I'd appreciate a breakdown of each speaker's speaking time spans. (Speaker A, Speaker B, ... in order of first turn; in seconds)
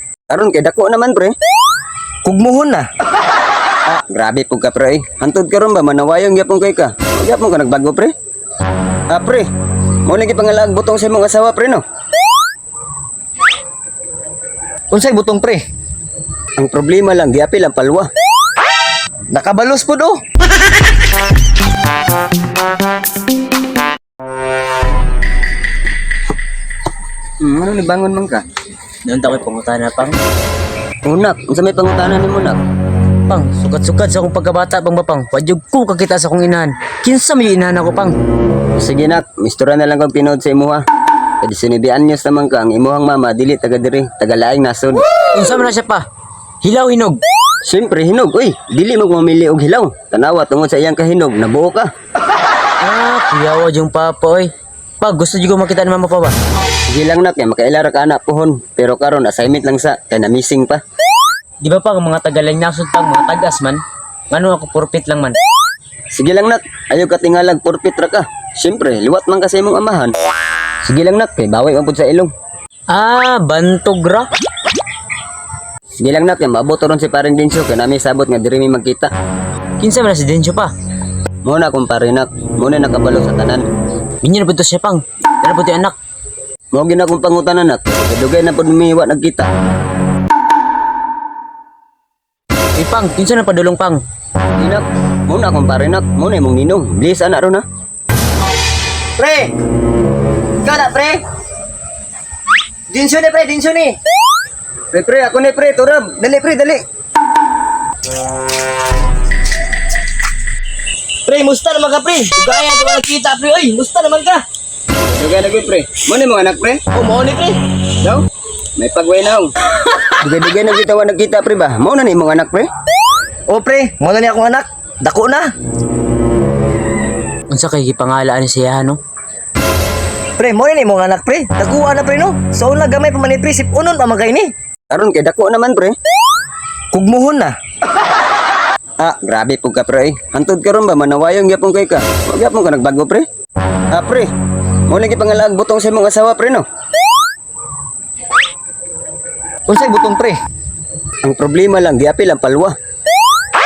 Speaker A: 0.3-1.3, 4.0-8.1, 9.1-9.5, 10.1-11.8, 16.6-18.1, 27.4-28.4, 31.0-32.6, 38.8-40.8, 41.4-45.1, 47.6-51.9, 56.9-60.8, 66.1-70.1, 70.8-72.3, 76.0-79.1, 81.4-83.7, 86.7-89.5, 94.6-97.6, 104.9-106.8, 115.1-116.8, 118.8-119.5, 120.2-122.7, 134.9-135.9, 139.0-143.2, 143.9-144.3, 144.9-146.7, 151.2-152.7
Speaker B: 2.2-2.9, 14.9-15.6, 19.3-20.2, 99.2-99.5, 100.6-101.2, 102.9-103.9, 111.2-114.4, 116.9-117.6, 123.5-125.5, 130.4-134.5, 136.9-137.5, 149.7-150.4
Speaker C: 29.0-30.2, 33.3-38.1, 45.3-46.0, 46.6-47.2, 52.8-56.4, 61.6-65.4, 72.9-74.3, 79.8-80.7, 84.2-86.0, 92.8-94.0, 127.5-129.0